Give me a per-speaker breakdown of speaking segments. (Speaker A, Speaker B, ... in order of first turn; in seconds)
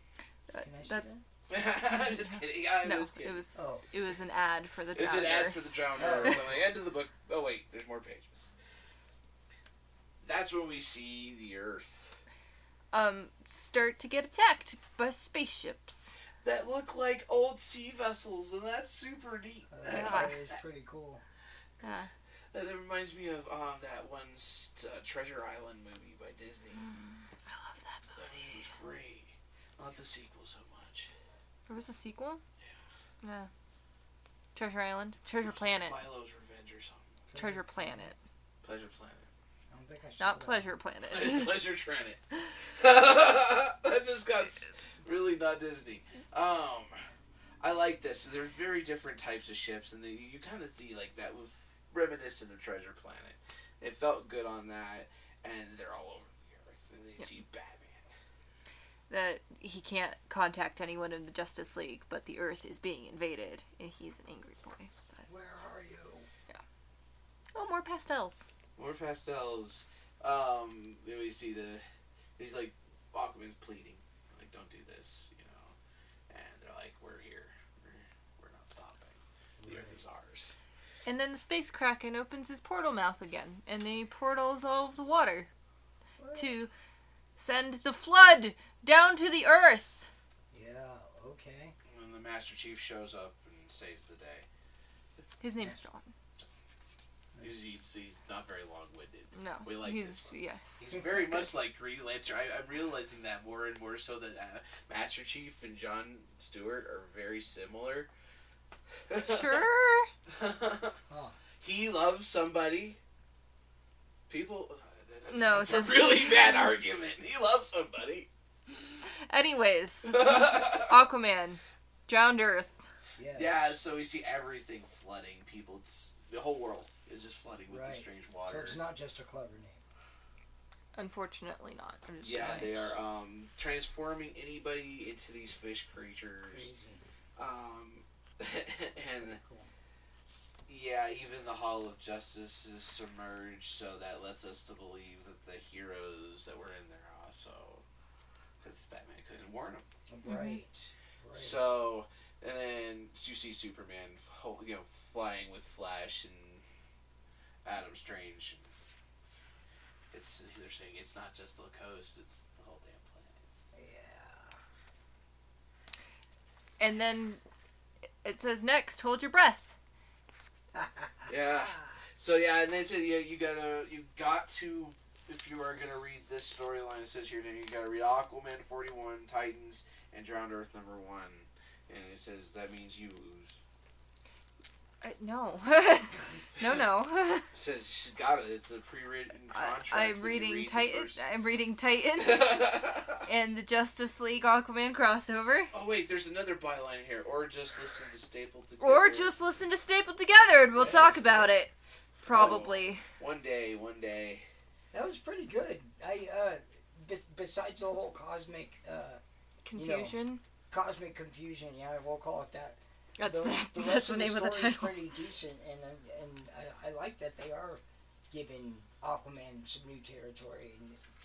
Speaker A: 0.5-1.1, 1.9-5.8, 12.9-16.1, 19.9-20.4, 21.8-22.1, 27.4-28.4, 31.7-32.4, 33.2-33.5, 34.5-36.0, 37.3-38.2, 40.2-41.6, 59.1-65.2, 67.5-68.5, 81.0-85.5, 86.3-86.7, 87.4-90.1, 95.4-96.1, 99.3-101.5, 109.2-110.1, 115.3-116.3, 118.8-122.8, 130.9-132.9, 150.2-150.6, 166.8-167.4, 168.2-169.7, 185.0-187.5, 189.5-195.7, 198.8-201.7, 202.2-203.0, 209.6-210.4, 213.2-215.1
Speaker B: 0.6-1.2, 3.5-3.8, 5.9-6.6, 19.7-21.2, 37.3-38.1, 39.7-40.7, 65.2-66.3, 79.6-80.0, 86.2-86.5, 90.5-91.7, 111.1-111.4, 123.2-123.8, 127.7-129.8, 136.4-137.0, 139.2-139.7, 150.1-151.7, 163.7-164.6, 170.7-171.3, 200.8-201.5, 204.9-209.2, 209.7-221.0
Speaker C: 1.5-3.5, 4.9-8.5, 10.2-12.2, 16.4-20.6, 22.5-26.8, 28.1-31.1, 35.4-37.1, 38.6-39.3, 41.1-47.0, 47.6-58.1, 68.8-71.8, 72.4-75.7, 76.3-80.6, 91.9-94.5, 97.4-108.1, 109.1-109.7, 110.3-111.0, 111.6-113.0, 114.3-118.3, 120.1-121.0, 123.3-128.8, 132.2-136.7, 137.4-139.4, 140.7-147.8, 148.6-149.8, 151.3-156.6, 157.6-158.7, 160.1-163.4, 171.3-183.6, 187.5-191.2, 192.2-193.2, 195.7-199.3, 202.2-204.4